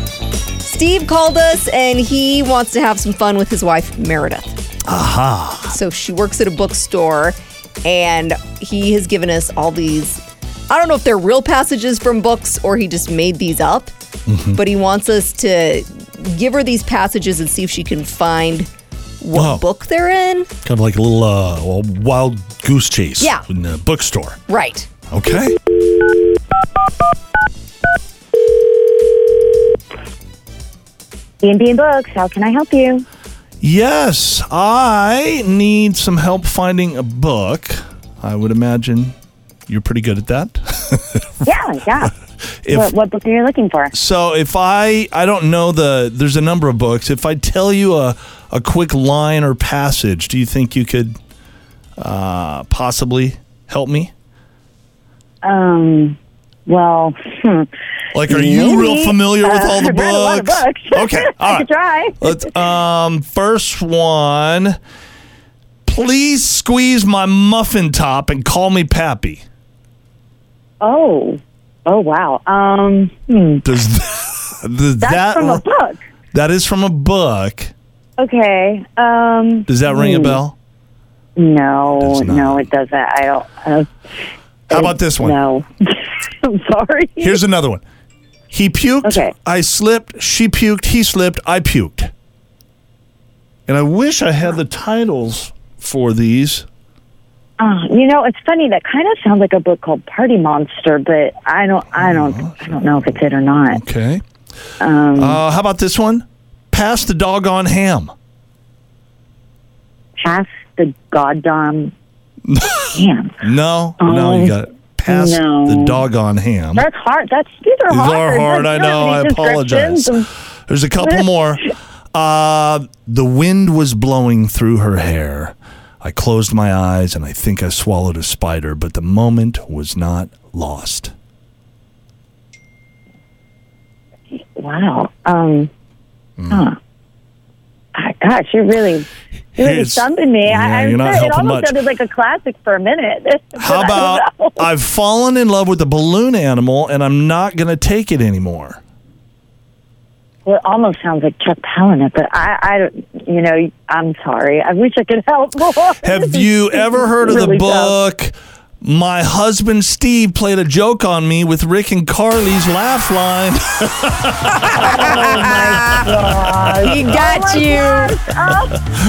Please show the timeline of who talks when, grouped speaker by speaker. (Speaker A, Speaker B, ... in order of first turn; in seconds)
Speaker A: 0.6-4.6, 5.7-13.9, 14.5-18.7, 19.2-20.5, 23.2-23.4, 24.5-24.9, 164.9-166.0, 166.8-168.2
Speaker B: 4.9-5.8, 14.3-14.6, 19.3-19.6, 20.6-24.4, 25.1-25.6, 33.6-39.1, 39.7-41.2, 42.6-42.9, 43.9-51.2, 52.0-54.1, 58.1-61.7, 62.2-64.8, 65.9-69.4, 73.6-75.6, 76.3-77.7, 79.7-80.5, 82.0-82.7, 84.7-85.4, 87.2-87.8, 88.5-92.1, 93.7-96.7, 102.0-103.2, 103.7-104.2, 105.2-108.1, 112.5-116.9, 117.9-120.1, 120.7-131.1, 136.4-136.7, 139.6-141.8, 143.6-148.8, 156.0-166.0
Speaker C: 31.4-33.0, 41.4-42.1, 42.7-43.9, 55.4-57.7, 58.3-62.3, 70.8-73.6, 75.0-76.0, 78.2-80.4, 81.4-83.9, 84.7-87.4, 89.0-89.3, 97.6-103.8, 104.8-105.4, 110.2-111.9, 113.0-113.4, 114.0-114.6, 115.1-116.0, 116.8-120.3, 134.3-135.7, 137.9-144.6, 150.4-158.0, 164.8-168.8